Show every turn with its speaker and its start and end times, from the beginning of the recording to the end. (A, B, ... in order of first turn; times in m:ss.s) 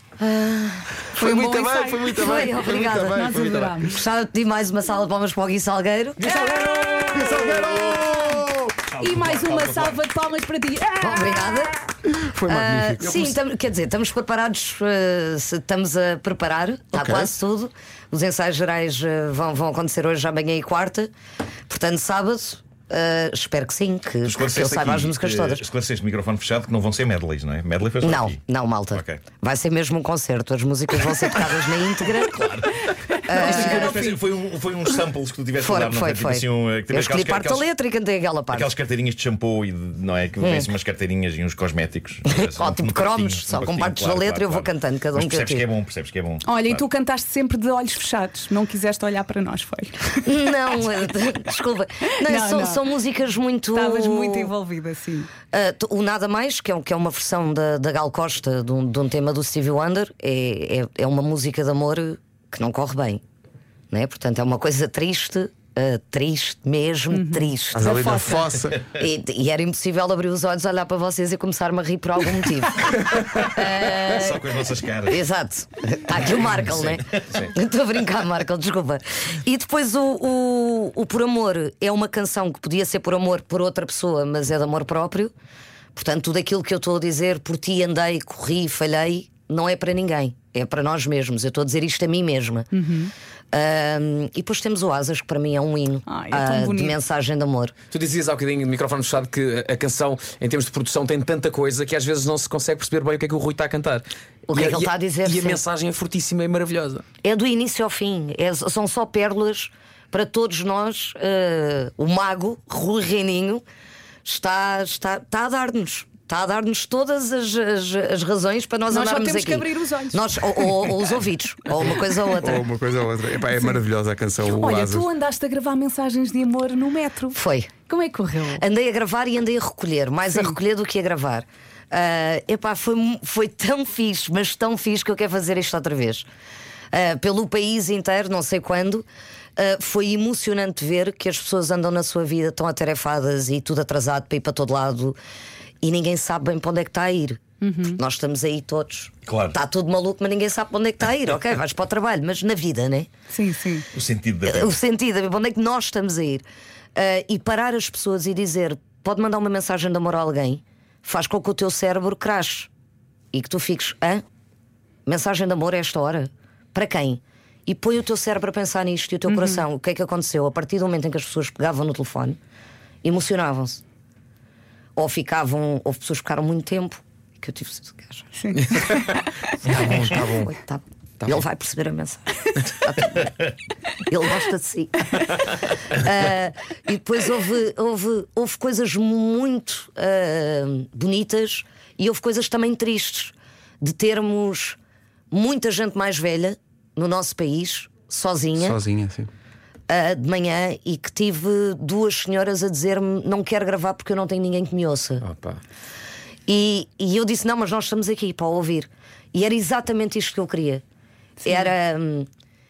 0:00.2-0:01.1 A
0:01.1-0:03.9 B
0:01.2-0:02.5 C
0:02.2-0:03.2 A
0:03.1-0:04.0 C
0:03.9-0:06.4 A
0:06.2-0:07.9 D
0:06.3-0:08.8 B
0:06.3-0:07.1 C
0:08.9-0:10.1 E
0:09.0-0:11.6 C
0:11.0-0:11.9 A
0:12.0-0:13.4 B
0:12.5-0:21.1 A
0:17.0-0:17.3 B
0:21.7-0:25.6 A
0:24.2-0:28.4 E
0:28.0-0:32.6 A
0:28.9-0:29.2 E
0:32.4-0:32.7 E
0:33.2-0:34.1 A
0:33.3-0:37.7 E
0:33.7-0:34.2 C
0:35.6-0:38.7 A
0:38.5-0:46.8 E
0:40.4-0:40.7 A
0:42.4-0:45.7 A
0:46.4-0:50.2 C
0:50.2-0:54.5 A
0:52.1-0:52.9 C
0:53.7-0:55.3 C
0:55.5-1:03.2 A
1:03.9-1:08.0 A
1:07.1-1:08.4 C
1:07.8-1:08.8 B
1:08.9-1:14.4 A
1:14.0-1:15.2 E
1:15.1-1:25.3 A
1:16.9-1:17.5 E
1:26.0-1:32.7 A
1:32.7-1:33.1 C
1:33.5-1:37.7 A
1:36.1-1:37.0 C
1:37.9-1:47.0 D
1:44.5-1:45.6 A
1:47.2-1:53.6 A
1:54.2-2:02.6 A
1:58.9-2:00.7 C
2:02.4-2:05.1 B
2:04.4-2:08.6 C
2:07.3-2:07.7 A
2:08.6-2:16.3 A
2:16.9-2:19.1 A
2:19.6-2:25.2 A
2:25.8-2:33.1 A
2:27.6-2:28.0 C
2:29.3-2:29.6 E
2:33.3-2:33.9 C
2:33.9-2:34.8 E
2:34.5-2:42.7 A
2:43.3-2:44.2 A
2:45.1-2:52.4 A
2:49.3-2:49.6 C
2:53.0-2:53.8 A
2:55.0-2:58.3 A
2:58.4-2:58.7 C
2:59.6-3:03.4 A
3:04.0-3:14.8 A
3:15.3-3:18.8 A
3:18.6-3:19.3 B
3:19.9-3:25.2 A
3:25.2-3:25.6 D
3:26.5-3:30.8 A
3:31.4-3:32.3 A